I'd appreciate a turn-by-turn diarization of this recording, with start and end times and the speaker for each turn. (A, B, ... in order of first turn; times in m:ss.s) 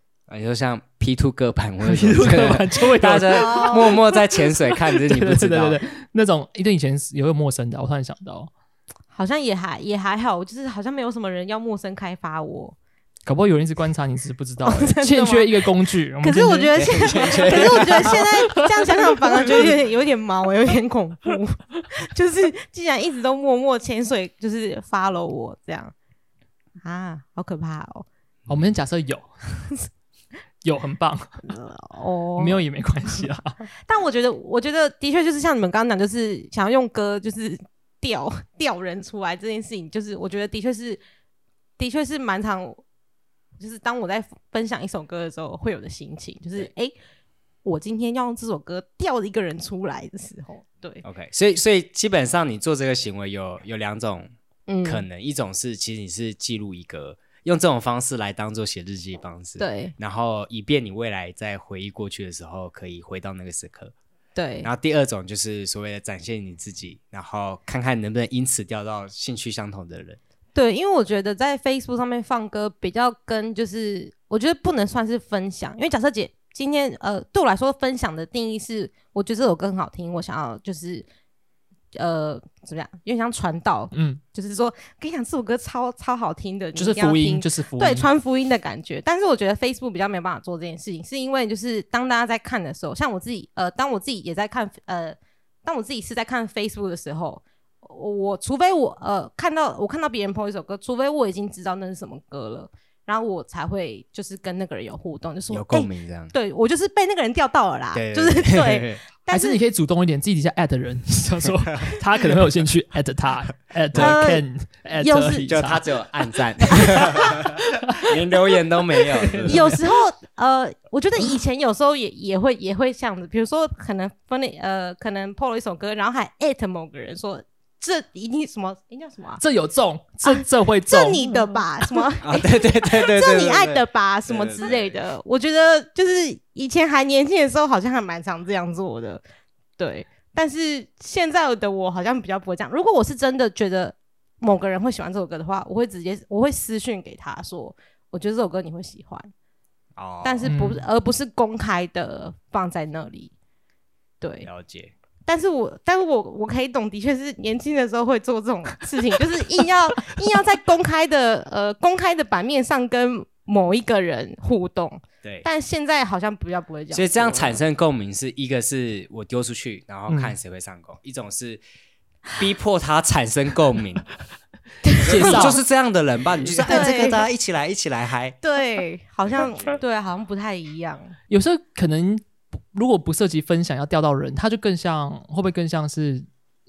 0:00.3-0:05.8 A
0:01.8-0:04.0 B
0:03.3-0:04.1 C
0:05.0-0:08.5 B
0:09.1-0:12.8 C
0:13.2-0:19.2 B
0:14.6-0:25.9 C
0:16.7-0:18.3 A
0:26.8-0:28.0 C
0:28.5-0:29.3 B
0:30.6-0:31.4 B
0:31.5-0:32.6 C
0:32.4-0:33.6 B
0:33.8-0:41.0 C
0:41.8-0:42.8 C
0:43.6-0:46.9 C
0:47.6-0:51.0 C
0:51.0-0:54.3 A
0:54.7-0:55.0 C
0:54.8-1:03.9 A
0:59.6-0:59.9 C
1:04.3-1:04.7 C
1:04.6-1:10.2 A
1:10.5-1:21.1 C
1:21.9-1:49.6 C
1:23.9-1:24.2 B
1:26.8-1:28.1 B
1:45.5-1:46.3 A
1:47.9-1:49.0 A
1:49.3-1:55.8 B
1:53.9-1:54.4 C
1:54.9-1:55.5 C
1:55.5-1:59.8 A
1:57.2-1:58.1 B
1:59.2-1:59.8 B
1:59.4-2:09.4 C
2:09.4-2:11.6 B
2:10.2-2:19.2 C
2:12.2-2:15.0 A
2:19.8-2:29.3 C
2:30.0-2:30.5 A
2:30.2-2:33.3 C
2:30.4-2:30.8 B
2:34.2-2:34.5 C
2:34.4-2:34.9 A
2:35.2-2:47.6 C
2:46.9-2:51.6 A
2:50.1-2:50.4 B
2:52.4-2:54.1 A
2:54.8-2:55.5 C
2:55.0-2:55.6 B
2:55.0-2:58.4 A
2:56.5-2:56.7 B
2:56.6-2:57.2 C
2:58.4-3:01.1 C
2:59.3-2:59.7 A
3:01.3-3:06.3 B